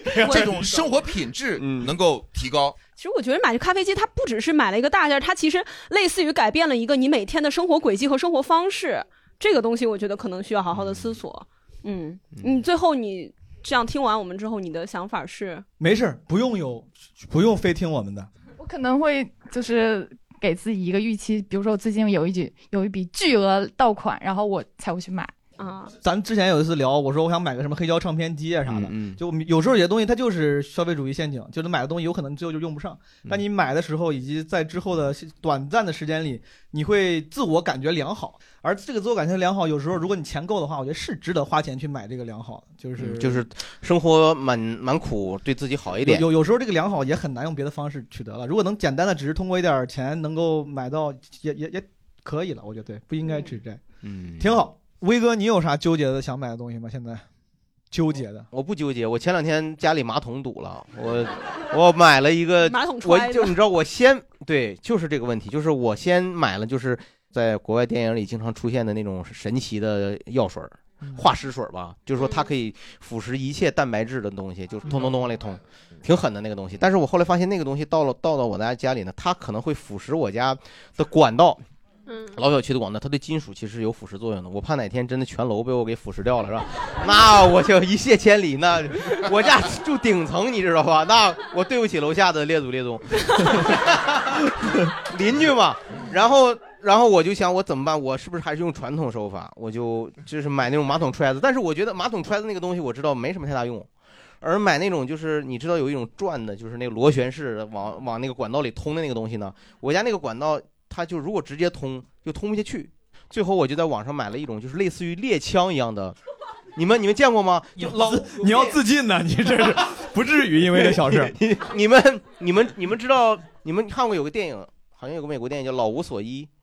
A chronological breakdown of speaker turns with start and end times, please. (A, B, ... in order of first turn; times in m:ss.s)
0:00.1-0:00.8 A
0:00.2-0:00.5 B
0:00.2-0:02.8 C
0:01.6-0:01.9 A
0:03.0-0:15.6 B
0:10.7-0:11.1 A
0:12.4-0:12.6 A
0:15.8-0:18.3 D
0:18.6-0:25.3 E
0:25.6-0:25.9 B
0:26.0-0:43.4 D
0:28.6-0:29.2 A
0:43.0-0:46.3 A
0:46.0-0:53.8 D
0:54.0-0:54.6 A
0:54.4-0:57.2 D
0:57.9-0:58.5 D
0:58.5-1:21.6 A
1:02.6-1:03.6 B
1:22.2-1:43.9 A
1:44.4-1:56.2 A
1:56.8-1:58.7 A
1:57.8-2:01.3 D
2:00.7-2:06.5 A